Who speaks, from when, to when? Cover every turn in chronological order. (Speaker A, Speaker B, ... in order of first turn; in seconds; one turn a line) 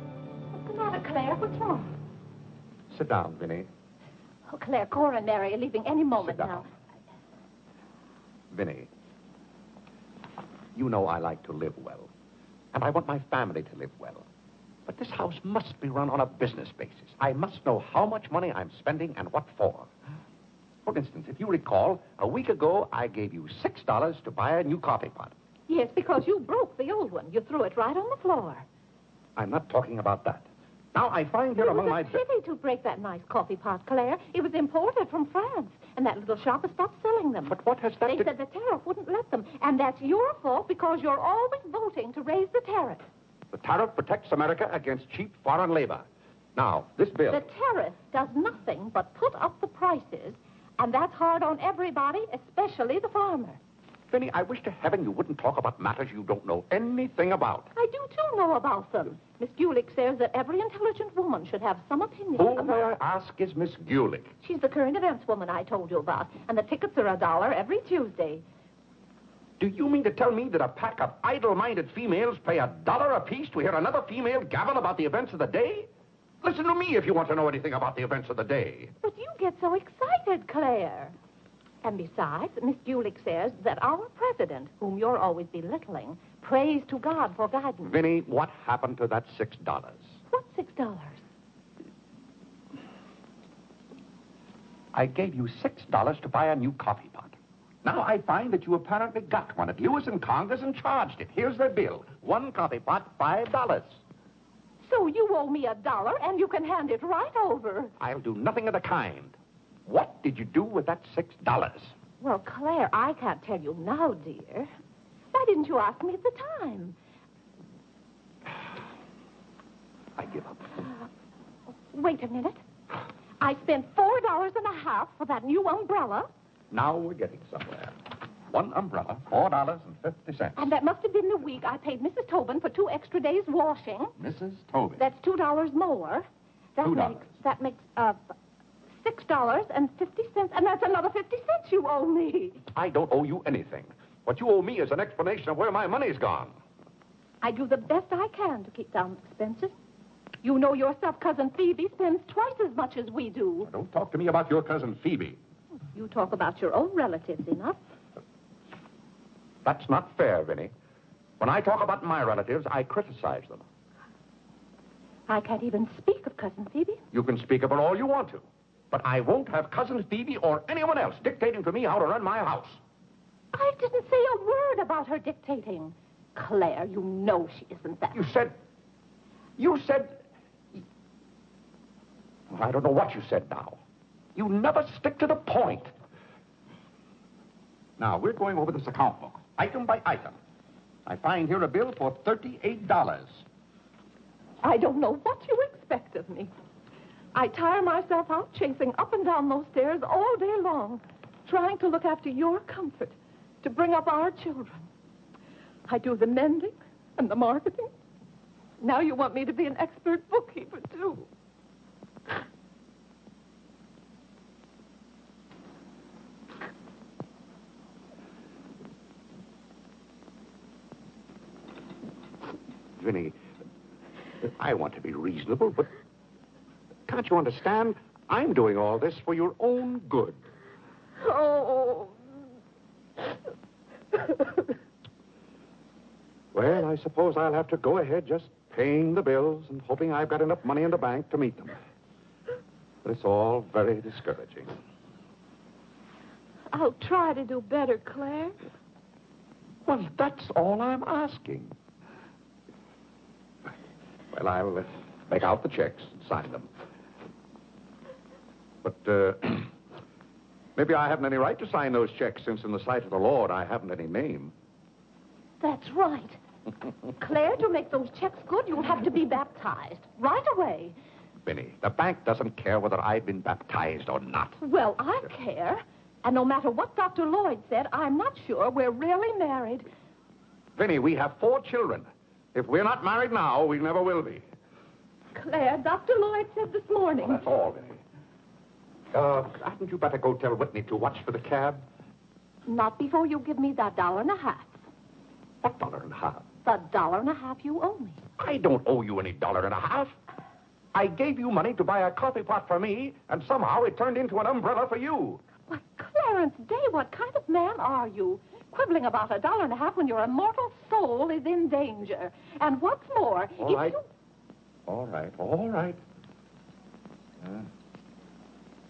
Speaker A: 0.5-1.9
Speaker B: 2.9-3.7
Speaker A: 4.5-6.7
Speaker B: 6.2-6.7
Speaker B: 8.5-8.9
Speaker B: 10.8-12.1
Speaker B: 12.7-14.2
Speaker B: 14.9-19.9
Speaker B: 20.9-25.3
Speaker A: 25.7-28.7
Speaker B: 29.4-32.2
Speaker A: 31.6-43.0
Speaker B: 37.5-38.3
Speaker B: 43.5-46.0
Speaker B: 46.6-47.5
Speaker A: 47.3-53.6
Speaker B: 54.1-57.7
Speaker A: 57.8-62.9
Speaker B: 62.4-64.3
Speaker A: 64.4-68.4
Speaker B: 69.6-75.9
Speaker B: 76.4-78.9
Speaker A: 79.0-81.1
Speaker A: 81.8-88.0
Speaker B: 87.8-90.2
Speaker A: 90.3-91.2
Speaker B: 94.9-104.0
Speaker A: 104.8-107.9
Speaker B: 108.0-111.9
Speaker A: 112.2-114.7
Speaker A: 115.3-117.0
Speaker B: 120.2-120.8
Speaker A: 121.9-122.6
Speaker A: 123.4-126.3
Speaker B: 126.7-128.0
Speaker B: 128.5-130.7
Speaker A: 130.6-134.2
Speaker B: 134.2-135.0
Speaker A: 135.0-136.2
Speaker A: 136.8-138.3
Speaker B: 136.8-137.2
Speaker A: 139.0-142.6
Speaker B: 142.7-146.6
Speaker A: 147.4-149.8
Speaker A: 150.4-153.7
Speaker B: 153.7-155.4
Speaker A: 155.9-157.8
Speaker B: 159.7-160.7
Speaker B: 161.4-163.6
Speaker A: 165.3-167.0
Speaker B: 167.1-172.8
Speaker A: 173.5-178.3
Speaker B: 178.1-178.5
Speaker B: 179.6-180.2
Speaker B: 182.5-183.8
Speaker B: 184.3-185.9
Speaker B: 188.0-190.4
Speaker B: 191.1-193.4
Speaker A: 194.6-196.5
Speaker A: 197.3-204.9
Speaker A: 205.9-207.9
Speaker A: 208.8-211.3
Speaker B: 223.0-223.4
Speaker B: 224.4-225.9
Speaker B: 227.1-230.4
Speaker A: 231.2-232.2
Speaker B: 236.5-241.8
Speaker B: 243.0-244.8
Speaker A: 246.7-248.6
Speaker B: 249.9-251.7
Speaker B: 254.3-256.7
Speaker B: 258.8-259.7
Speaker B: 260.8-264.5
Speaker A: 265.6-266.4
Speaker A: 267.1-270.9
Speaker B: 271.5-274.6
Speaker A: 274.6-279.9
Speaker B: 280.8-284.4
Speaker A: 285.3-287.4
Speaker B: 287.2-288.0
Speaker B: 289.1-291.8
Speaker A: 292.7-294.7
Speaker B: 295.6-296.4
Speaker A: 296.6-298.2
Speaker B: 298.4-300.1
Speaker B: 300.9-305.4
Speaker A: 305.7-314.0
Speaker B: 313.6-314.0
Speaker B: 314.9-316.0
Speaker B: 317.4-317.7